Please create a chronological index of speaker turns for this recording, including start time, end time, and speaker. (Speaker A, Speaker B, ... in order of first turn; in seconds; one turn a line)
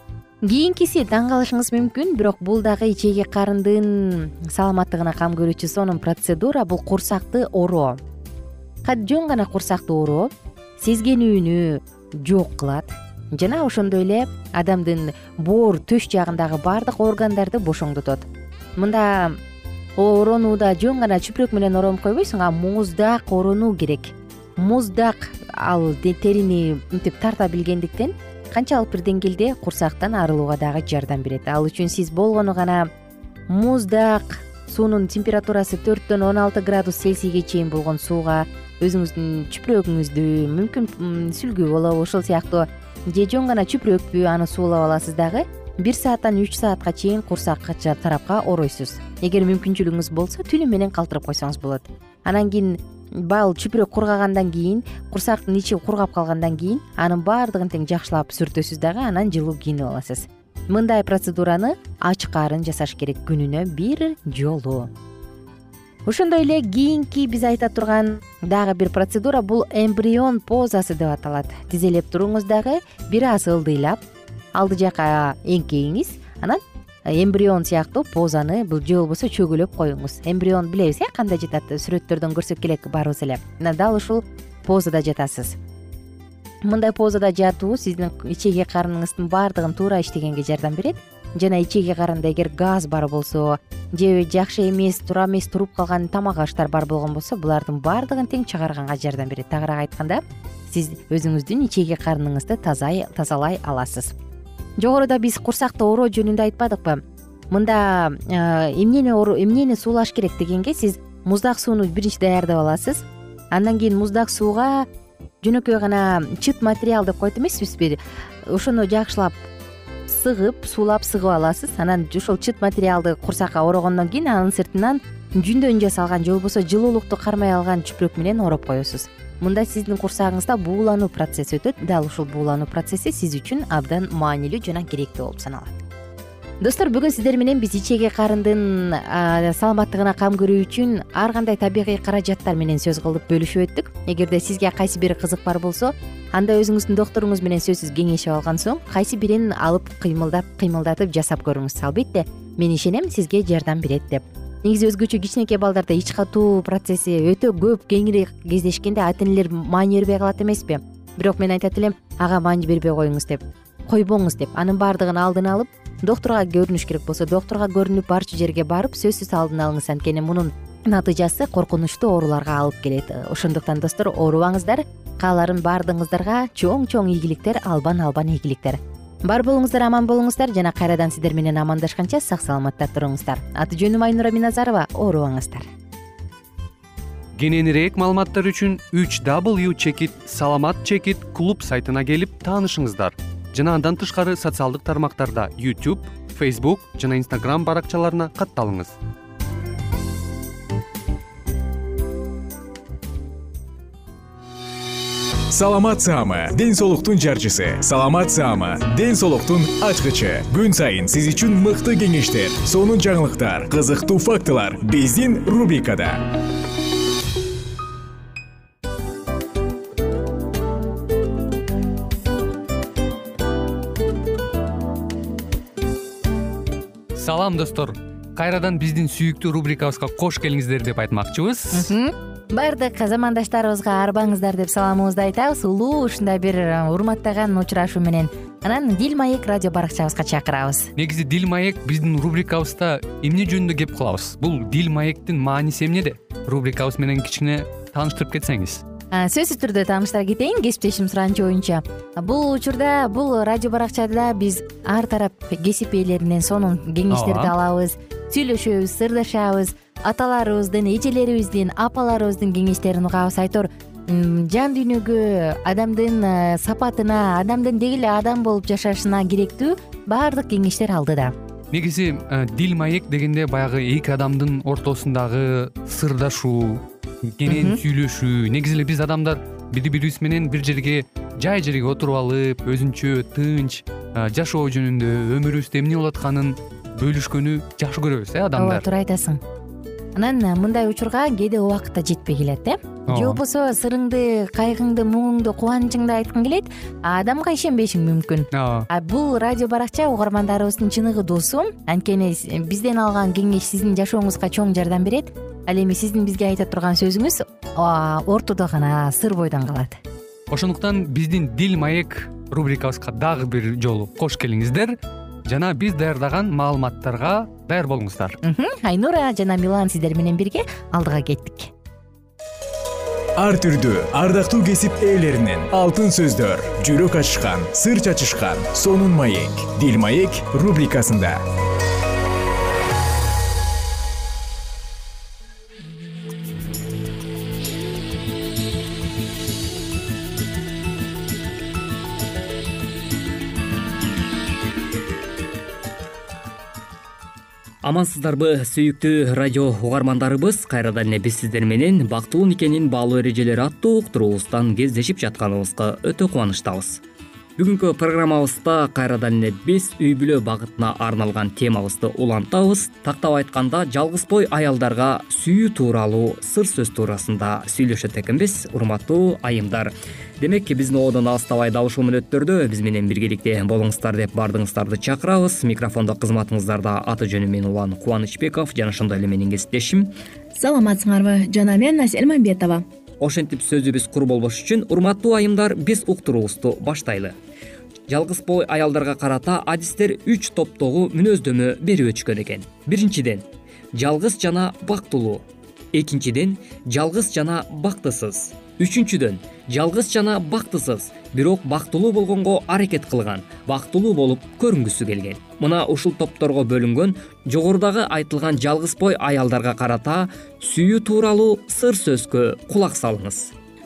Speaker A: 0.4-8.0
Speaker A: 8.8-19.4
Speaker A: 20.0-32.9
Speaker A: 33.5-64.9
Speaker A: 66.1-74.0
Speaker A: 74.5-85.6
Speaker A: 86.6-104.2
Speaker A: 104.8-114.9
Speaker A: 115.4-119.4
Speaker A: 120.1-135.8
Speaker A: 136.6-185.7
Speaker B: 187.4-198.9
Speaker C: 205.5-216.2
Speaker B: 227.2-231.9
Speaker A: 231.7-240.9
Speaker B: 241.0-248.8
Speaker A: 249.1-271.4
Speaker B: 257.1-257.5
Speaker B: 271.7-288.9
Speaker A: 277.5-277.8
Speaker A: 288.6-289.4
Speaker A: 290.1-310.0
Speaker B: 293.1-293.4
Speaker B: 298.5-298.9
Speaker B: 310.5-315.0
Speaker B: 315.5-318.4
Speaker A: 318.4-321.7
Speaker C: 323.4-331.4
Speaker D: 347.8-357.0
Speaker D: 357.6-380.1
Speaker E: 380.5-382.9
Speaker D: 383.2-387.4
Speaker D: 388.1-413.5